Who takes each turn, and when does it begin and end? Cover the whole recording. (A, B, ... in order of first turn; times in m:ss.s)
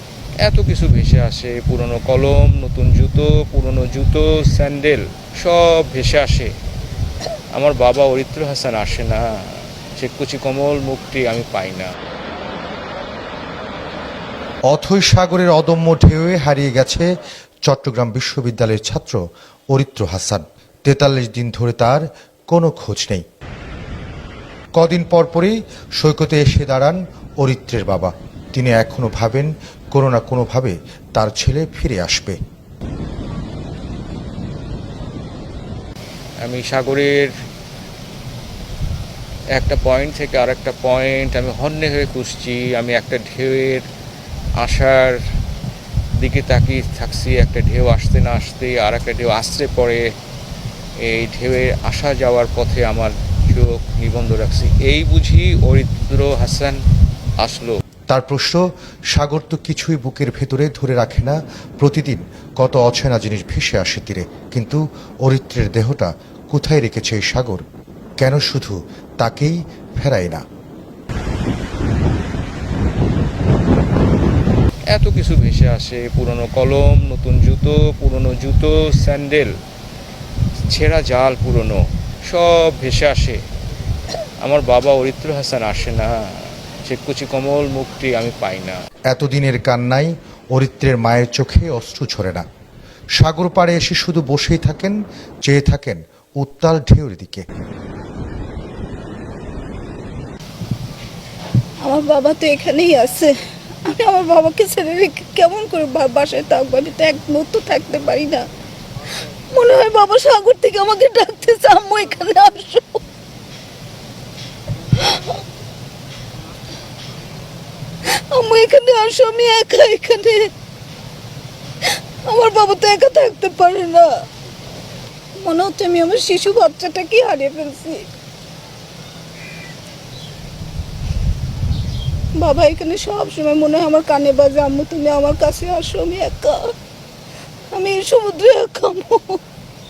0:00.4-0:06.5 A
0:07.5-0:11.9 A
0:14.7-0:17.1 B
0:17.6-0:19.2 B
0:19.7-0:23.2 B
0:24.8-0:32.4 B
0:36.4-0:37.3 A
0:39.5-0:43.8 A
0:44.6-0:45.2 A
0:46.2-0:50.0 A
0:51.0-0:56.8 A
0:57.4-0:57.8 A
0:58.1-0:58.6 B
0:59.1-1:07.6 B
1:08.2-1:10.4 B
1:14.9-1:19.5 A
1:20.7-1:23.4 A
1:24.4-1:28.8 A
1:29.1-1:32.4 B
1:33.2-1:37.4 B
1:41.8-1:43.3 C
1:43.8-1:48.4 C
1:49.5-1:53.0 C
1:55.0-1:55.3 C
1:58.0-2:00.5 C
2:01.8-2:04.1 C
2:05.4-2:08.1 C
2:12.4-2:16.7 C
2:17.7-2:19.4 C